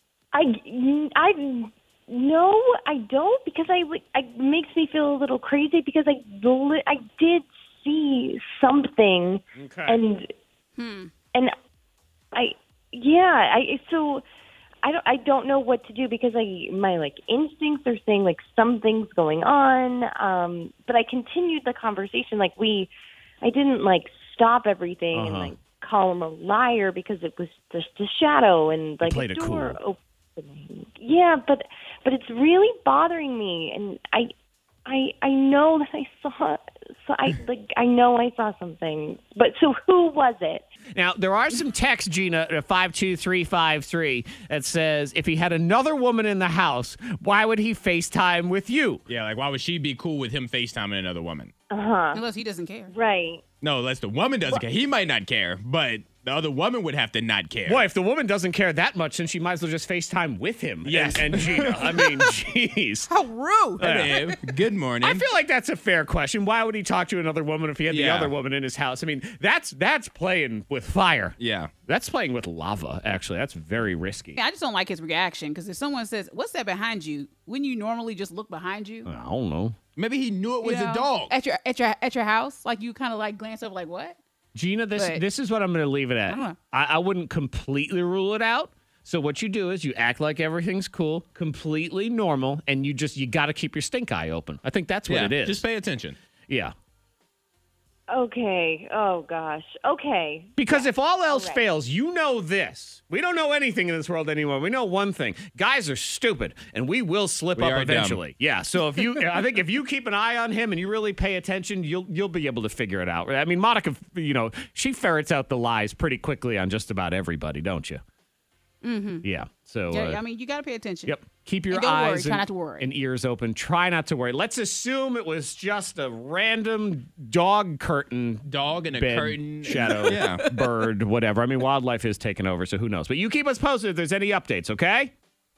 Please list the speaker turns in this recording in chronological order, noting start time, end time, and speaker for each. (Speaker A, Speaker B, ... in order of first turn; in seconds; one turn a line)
Speaker A: 0.3-10.3
Speaker B: 9.6-10.0
Speaker C: 10.8-11.1
Speaker A: 12.3-14.2
Speaker A: 14.8-22.9
Speaker A: 23.4-34.3
Speaker B: 25.1-25.5
Speaker B: 29.0-29.8
Speaker A: 34.9-40.6
Speaker B: 40.9-49.0
Speaker D: 49.1-51.5
Speaker A: 51.7-52.2
Speaker C: 52.1-52.9
Speaker A: 52.9-53.4
Speaker D: 53.6-57.8
Speaker B: 57.6-63.1
Speaker D: 60.8-62.3
Speaker C: 63.1-63.9
Speaker B: 63.8-64.4
Speaker D: 63.8-65.3
Speaker B: 65.0-71.3
Speaker D: 67.9-68.3
Speaker D: 71.4-71.7
Speaker B: 71.9-74.4
Speaker C: 74.4-79.1
Speaker B: 79.0-79.8
Speaker D: 80.0-81.3
Speaker C: 80.6-84.2
Speaker B: 84.5-95.6
Speaker C: 85.0-85.2
Speaker C: 86.3-86.5
Speaker D: 95.1-96.2
Speaker B: 96.5-96.7
Speaker A: 98.1-101.6
Speaker B: 100.6-118.0
Speaker D: 107.5-108.2
Speaker C: 118.8-119.2
Speaker B: 119.2-120.2
Speaker C: 119.9-121.2
Speaker B: 121.0-135.1
Speaker C: 121.7-122.9
Speaker D: 128.4-130.6